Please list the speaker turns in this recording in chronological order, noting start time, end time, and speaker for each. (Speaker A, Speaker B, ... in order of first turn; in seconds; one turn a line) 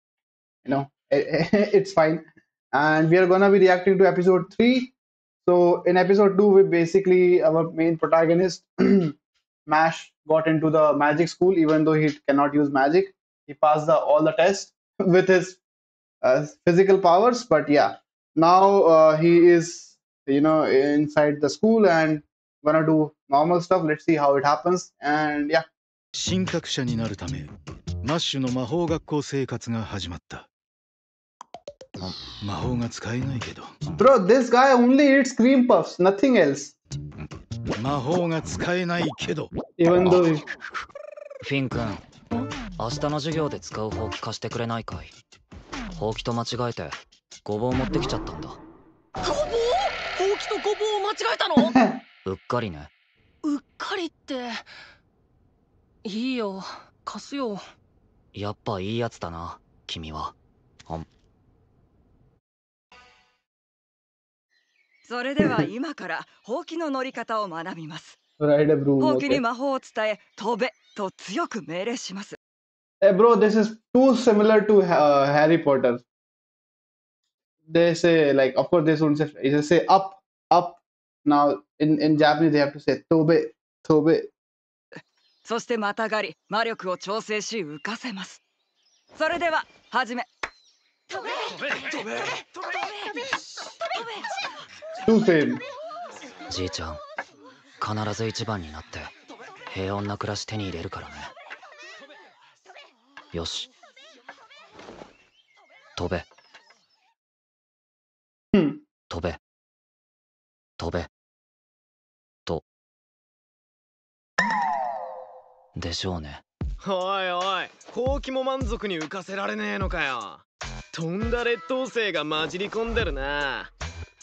Speaker A: 0.7-4.9
Speaker A: 5.5-15.6
Speaker A: 16.2-25.7
Speaker B: 26.2-27.5
Speaker B: 28.0-30.5
Speaker B: 32.4-33.8
Speaker A: 34.0-36.8
Speaker B: 37.8-39.5
Speaker A: 39.8-40.5
Speaker C: 41.4-42.0
Speaker C: 42.8-45.1
Speaker C: 45.9-48.6
Speaker D: 49.2-51.8
Speaker A: 51.7-52.0
Speaker C: 52.2-52.9
Speaker D: 53.4-54.6
Speaker D: 56.0-57.6
Speaker C: 58.3-60.4
Speaker E: 65.1-68.2
Speaker A: 68.4-69.4
Speaker E: 69.0-72.4
Speaker A: 73.0-76.0
Speaker A: 77.7-84.3
Speaker E: 85.5-88.4
Speaker E: 89.2-90.3
Speaker E: 91.1-93.3
Speaker E: 93.8-94.5
Speaker A: 95.0-95.6
Speaker C: 96.5-97.0
Speaker C: 97.8-99.1
Speaker C: 99.7-101.3
Speaker C: 103.3-103.7
Speaker C: 106.0-106.3
Speaker A: 108.5-108.8
Speaker C: 109.1-109.4
Speaker C: 110.8-111.1
Speaker C: 115.8-116.4
Speaker F: 116.8-123.7